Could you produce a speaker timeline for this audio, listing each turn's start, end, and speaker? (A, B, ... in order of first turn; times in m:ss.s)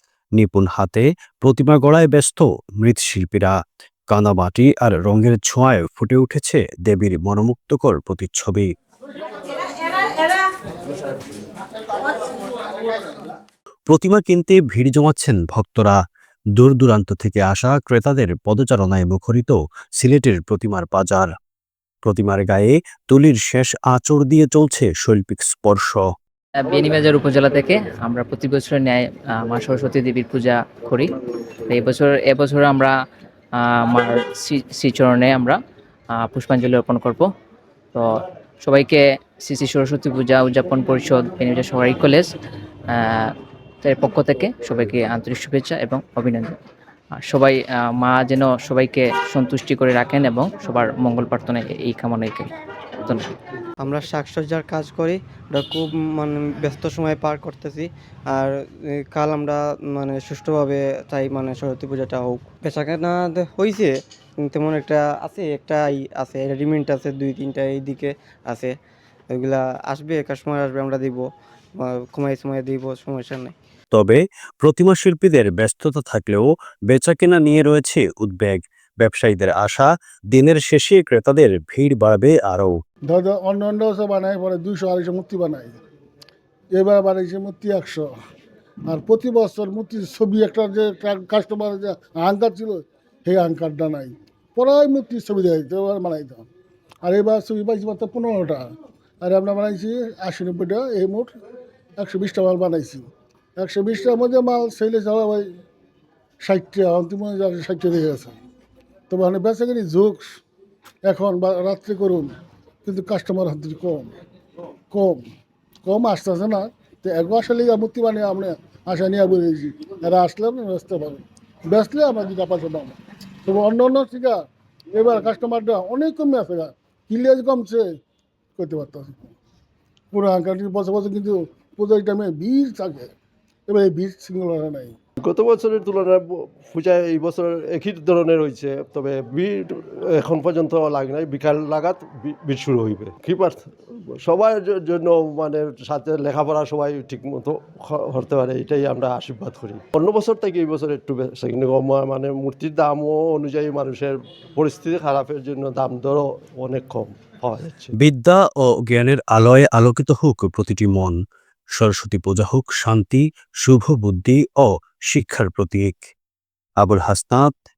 0:00.4-0:03.6 A
0:04.1-0:08.7 A
0:13.9-0:16.0 A
0:16.6-0:21.3 A
0:22.0-0:26.1 A
0:26.6-0:31.1 B
0:31.7-0:32.9 B
0:33.5-0:35.6 B
0:36.1-0:37.3 B
0:37.9-0:42.3 B
0:42.9-0:46.6 B
0:47.2-0:52.5 B
0:53.0-0:53.3 B
0:53.8-1:08.7 C
1:09.3-1:11.2 C
1:11.8-1:13.5 C
1:13.9-1:22.8 A
1:23.1-1:25.8 D
1:26.7-1:28.1 D
1:28.9-1:36.4 D
1:37.0-1:38.7 D
1:39.2-1:41.3 D
1:42.0-1:43.1 D
1:43.6-1:45.5 D
1:46.4-1:48.4 D
1:49.1-1:50.4 D
1:51.0-1:54.1 D
1:54.9-1:55.2 D
1:55.8-2:04.4 D
2:04.9-2:07.8 D
2:08.6-2:09.3 D
2:10.1-2:13.1 D
2:13.7-2:15.0 D
2:15.2-2:37.9 E
2:38.0-2:41.2 A
2:41.8-2:46.1 A
2:46.8-2:47.5 A